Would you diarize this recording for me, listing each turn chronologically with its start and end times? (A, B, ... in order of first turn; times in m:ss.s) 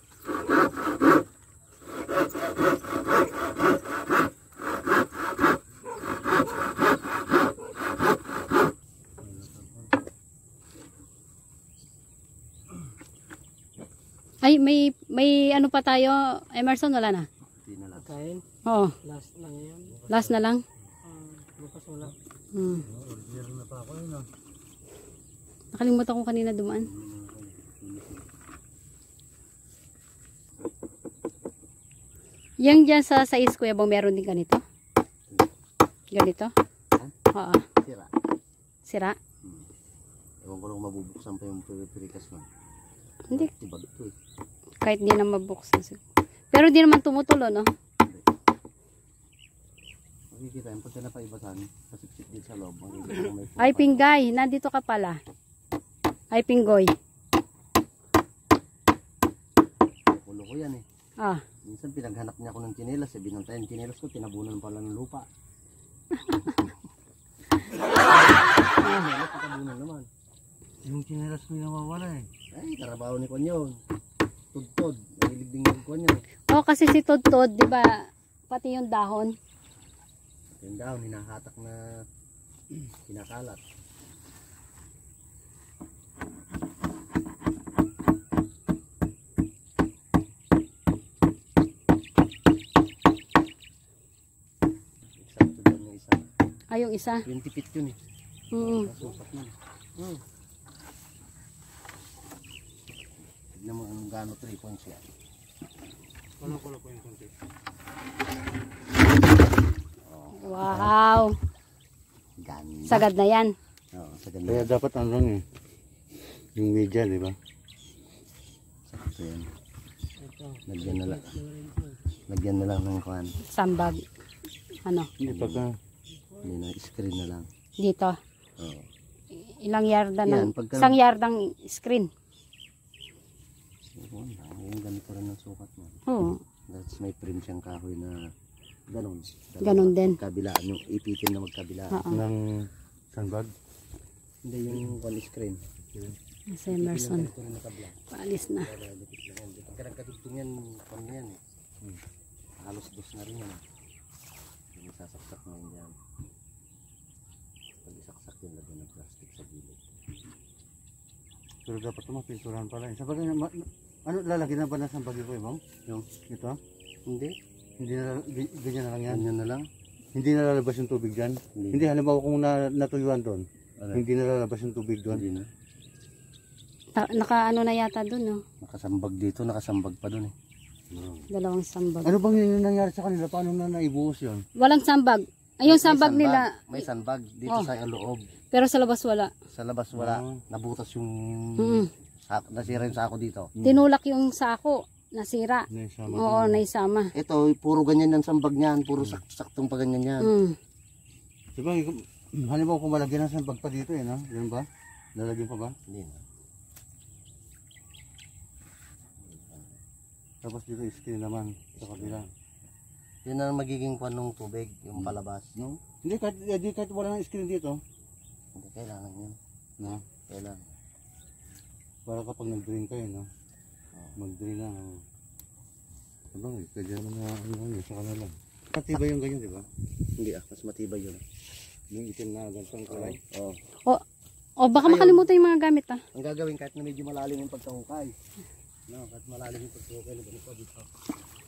0:09.2-0:09.9 A
0:14.4-0:17.2 B
0:17.6-0:18.2 C
0:18.2-0:18.4 D
0:18.6-0:19.0 B
0:19.0-0:19.9 D
0:19.9-0:20.3 C
0:20.1-0:20.6 B
0:21.1-0:22.1 D
0:22.5-0:22.8 B
0:22.9-0:24.3 A
0:25.7-0:26.9 B
0:26.8-0:28.2 C
0:32.6-0:34.6 B
0:36.1-0:36.5 B
0:37.3-0:37.6 B
0:37.8-0:38.1 C
0:38.8-0:39.2 B
0:40.4-0:42.5 C
0:43.3-0:44.1 C
0:44.8-0:46.0 B
0:46.5-0:47.7 B
0:50.3-0:54.0 C
0:53.6-0:55.2 B
0:56.3-0:56.9 B
1:00.1-1:00.8 C
1:01.6-1:05.3 C
1:08.8-1:10.1 C
1:10.8-1:12.3 A
1:12.5-1:13.8 C
1:14.5-1:16.2 C
1:16.5-1:19.3 B
1:20.6-1:21.8 C
1:23.0-1:23.6 C
1:35.1-1:36.3 C
1:36.7-1:37.2 B
1:37.2-1:38.0 C
1:38.5-1:38.9 B
1:38.6-1:40.2 C
1:43.5-1:45.0 C
1:46.4-1:47.3 A
1:50.0-1:50.9 C
1:50.4-1:51.3 B
1:52.4-1:53.1 C
1:52.9-1:53.5 B
1:53.9-1:54.7 C
1:54.4-1:55.4 A
1:56.6-1:57.4 A
1:58.9-1:59.5 C
2:00.2-2:00.6 D
2:00.6-2:01.4 C
2:01.4-2:01.9 D
2:02.3-2:03.3 C
2:03.5-2:04.0 B
2:04.8-2:05.1 B
2:05.2-2:05.7 A
2:05.2-2:05.6 C
2:06.4-2:07.5 C
2:07.8-2:08.2 B
2:08.6-2:08.9 C
2:09.4-2:12.1 B
2:10.2-2:11.0 C
2:14.0-2:16.0 C
2:16.1-2:16.4 B
2:16.7-2:18.3 C
2:18.9-2:22.1 C
2:19.6-2:20.2 B
2:21.9-2:22.2 B
2:22.1-2:23.5 A
2:24.4-2:25.6 C
2:25.9-2:26.2 A
2:26.5-2:27.3 B
2:26.7-2:31.4 C
2:28.1-2:28.7 B
2:32.6-2:33.6 C
2:34.7-2:36.0 C
2:37.8-2:39.8 C
2:41.6-2:45.6 A
2:46.3-2:46.6 A
2:47.1-2:47.3 C
2:47.8-2:49.2 A
2:49.0-2:49.7 C
2:50.1-2:55.2 A
2:51.5-2:51.9 C
2:53.8-2:54.0 C
2:55.1-2:55.5 C
2:57.0-2:58.4 B
2:58.6-3:00.3 C
3:00.9-3:01.3 A
3:01.3-3:02.1 B
3:02.0-3:04.4 A
3:04.6-3:06.6 B
3:05.6-3:08.2 C
3:08.5-3:09.3 B
3:09.5-3:13.5 C
3:09.9-3:10.4 A
3:11.6-3:11.9 B
3:13.6-3:13.8 A
3:13.6-3:17.1 B
3:15.7-3:16.6 A
3:17.1-3:20.3 C
3:20.2-3:20.6 B
3:21.5-3:25.8 A
3:25.9-3:26.2 C
3:29.2-3:29.7 C
3:30.4-3:32.3 A
3:31.9-3:32.2 C
3:33.2-3:35.5 C
3:35.0-3:37.8 A
3:38.5-3:39.4 C
3:40.3-3:40.7 C
3:42.0-3:43.3 A
3:43.9-3:44.2 C
3:44.2-3:45.0 A
3:46.3-3:49.7 A
3:50.2-3:51.2 C
3:51.9-3:53.2 A
3:52.9-3:53.6 C
3:54.6-3:56.0 B
3:54.7-3:55.3 C
3:56.1-3:58.1 C
3:58.9-4:00.9 C